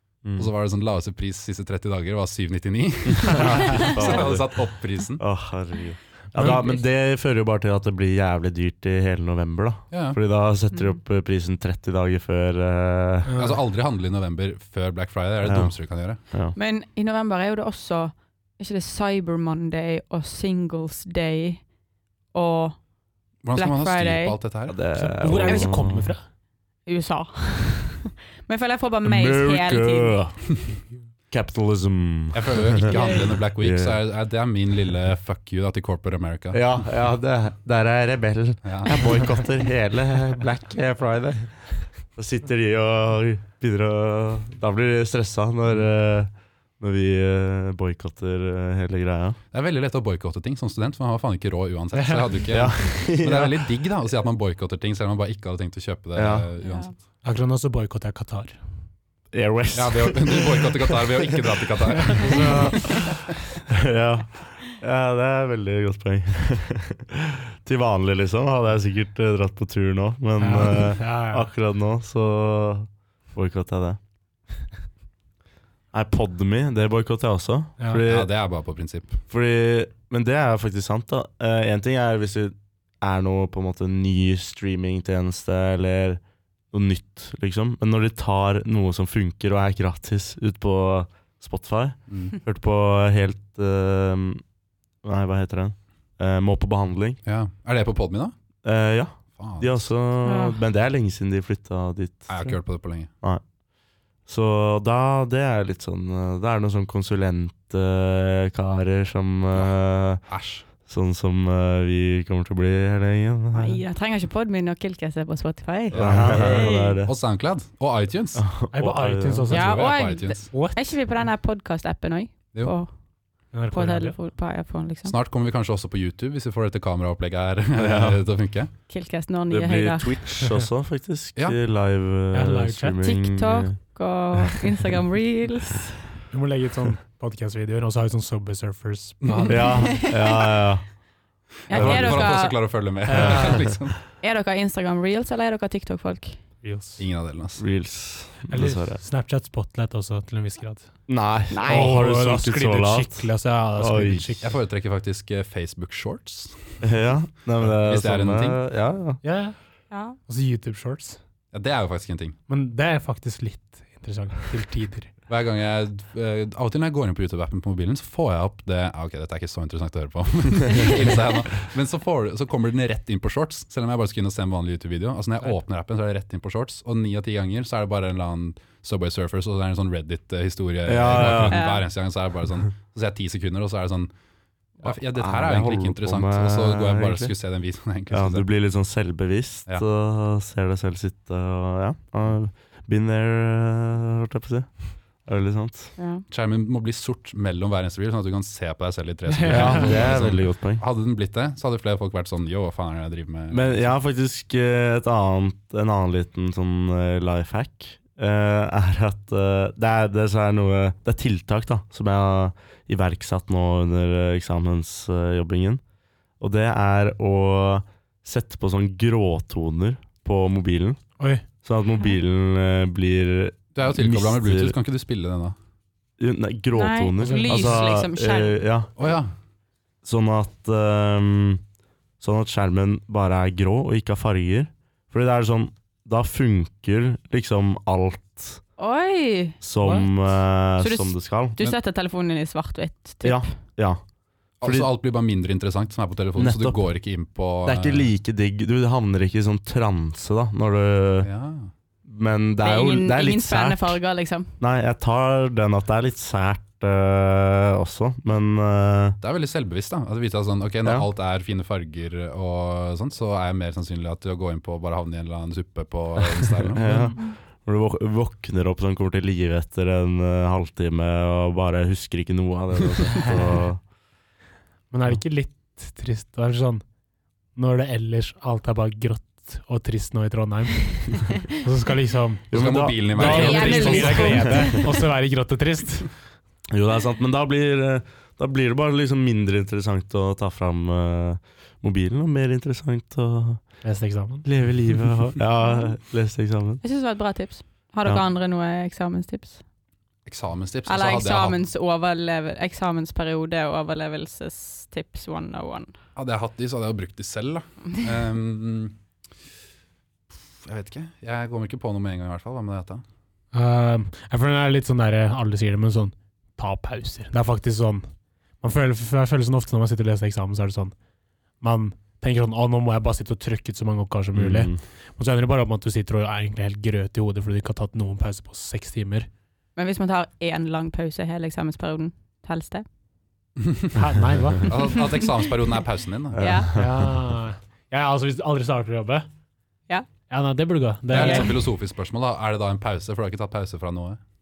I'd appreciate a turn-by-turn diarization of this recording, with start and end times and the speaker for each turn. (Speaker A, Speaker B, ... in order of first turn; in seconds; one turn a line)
Speaker A: 0.2-0.5
Speaker B: 0.3-5.2
Speaker A: 3.1-4.6
Speaker A: 5.2-13.3
Speaker C: 6.3-6.8
Speaker B: 9.9-10.2
Speaker D: 10.7-11.0
Speaker C: 13.3-13.6
Speaker B: 13.4-16.2
Speaker A: 15.4-15.7
Speaker A: 16.3-16.6
Speaker D: 16.6-21.7
Speaker D: 22.3-22.8
Speaker B: 23.4-24.8
Speaker D: 23.5-24.4
Speaker A: 24.7-26.1
Speaker C: 24.9-26.2
Speaker D: 25.4-25.7
Speaker D: 26.9-30.2
Speaker A: 29.0-30.5
Speaker A: 31.3-34.0
Speaker B: 32.3-36.6
Speaker D: 32.8-33.3
Speaker A: 36.5-49.4
Speaker B: 38.6-39.0
Speaker B: 49.5-56.9
Speaker C: 51.9-52.3
Speaker A: 52.5-53.6
Speaker A: 56.1-56.5
Speaker D: 56.6-56.9
Speaker C: 57.2-58.6
Speaker A: 59.3-61.4
Speaker B: 59.7-63.2
Speaker C: 62.1-62.7
Speaker A: 63.7-74.0
Speaker C: 70.4-71.5
Speaker A: 75.9-78.3
Speaker B: 78.0-79.2
Speaker A: 79.3-94.4
Speaker B: 92.1-92.3
Speaker A: 95.0-97.2
Speaker B: 97.2-98.3
Speaker A: 98.6-102.6
Speaker B: 99.3-99.9
Speaker D: 100.2-100.6
Speaker B: 102.3-103.1
Speaker A: 104.2-113.8
Speaker B: 109.5-110.7
Speaker D: 113.5-117.0
Speaker B: 115.9-118.6
Speaker A: 115.9-117.1
Speaker A: 118.3-119.5
Speaker C: 118.7-119.9
Speaker B: 119.5-120.5
Speaker D: 119.5-122.9
Speaker C: 120.5-120.8
Speaker C: 123.5-124.2
Speaker D: 123.7-125.1
Speaker B: 125.0-128.7
Speaker A: 127.8-128.2
Speaker D: 128.9-130.3
Speaker A: 129.5-133.8
Speaker C: 132.3-133.0
Speaker D: 133.0-136.1
Speaker A: 134.3-134.7
Speaker C: 136.3-139.8
Speaker B: 139.2-139.9
Speaker A: 139.5-140.8
Speaker D: 139.9-140.3
Speaker D: 141.7-142.6
Speaker B: 141.7-144.0
Speaker A: 141.7-142.3
Speaker C: 143.1-143.7
Speaker A: 143.2-143.6
Speaker D: 144.2-146.4
Speaker C: 146.6-147.0
Speaker B: 147.0-147.6
Speaker A: 147.6-149.0
Speaker C: 148.5-151.1
Speaker A: 151.1-154.3
Speaker D: 151.5-152.0
Speaker C: 151.6-154.5
Speaker B: 154.4-156.9
Speaker A: 156.8-159.2
Speaker B: 157.6-158.6
Speaker C: 159.2-159.6
Speaker D: 159.9-160.2
Speaker C: 160.2-161.2
Speaker B: 161.5-162.4
Speaker C: 162.5-165.1
Speaker B: 165.3-184.1
Speaker A: 180.8-181.6
Speaker D: 181.5-181.8
Speaker B: 184.8-188.5
Speaker A: 184.8-187.3
Speaker A: 188.1-195.9
Speaker D: 196.0-196.2
Speaker B: 196.3-203.9
Speaker C: 199.3-199.9
Speaker A: 199.5-200.8
Speaker A: 203.5-215.8
Speaker A: 216.4-221.0
Speaker C: 221.2-221.4
Speaker A: 221.6-224.8
Speaker B: 223.7-225.6
Speaker A: 226.2-228.9
Speaker D: 226.7-228.6
Speaker C: 227.2-227.9
Speaker B: 229.0-229.3
Speaker A: 230.0-231.6
Speaker A: 232.2-238.6
Speaker D: 238.8-239.6
Speaker A: 239.6-241.7
Speaker C: 239.8-240.1
Speaker D: 240.8-243.5
Speaker A: 243.2-244.0
Speaker B: 244.6-248.1
Speaker A: 244.6-244.9
Speaker A: 246.4-246.8
Speaker A: 247.7-251.3
Speaker B: 251.2-251.7
Speaker A: 252.0-254.0
Speaker D: 252.6-254.5
Speaker A: 254.6-259.2
Speaker B: 259.2-266.9
Speaker A: 266.7-273.9
Speaker C: 266.8-267.2
Speaker C: 274.9-276.8
Speaker C: 277.5-286.1
Speaker A: 282.5-284.6
Speaker B: 282.5-284.5
Speaker D: 283.1-284.9
Speaker A: 286.7-293.8
Speaker C: 293.8-294.4
Speaker A: 294.4-296.8
Speaker D: 295.6-295.9
Speaker D: 296.8-299.6
Speaker B: 300.2-301.6
Speaker D: 300.9-305.9
Speaker B: 306.1-309.0
Speaker B: 310.6-313.0
Speaker C: 313.5-318.1
Speaker C: 318.6-320.9
Speaker C: 321.6-329.3
Speaker A: 324.3-324.8
Speaker D: 329.8-332.9
Speaker B: 333.6-334.0
Speaker C: 333.9-334.9
Speaker B: 334.6-336.6
Speaker A: 336.3-336.8
Speaker D: 336.4-336.7
Speaker C: 336.7-339.3
Speaker C: 340.3-341.6
Speaker B: 341.1-344.2
Speaker D: 341.1-341.5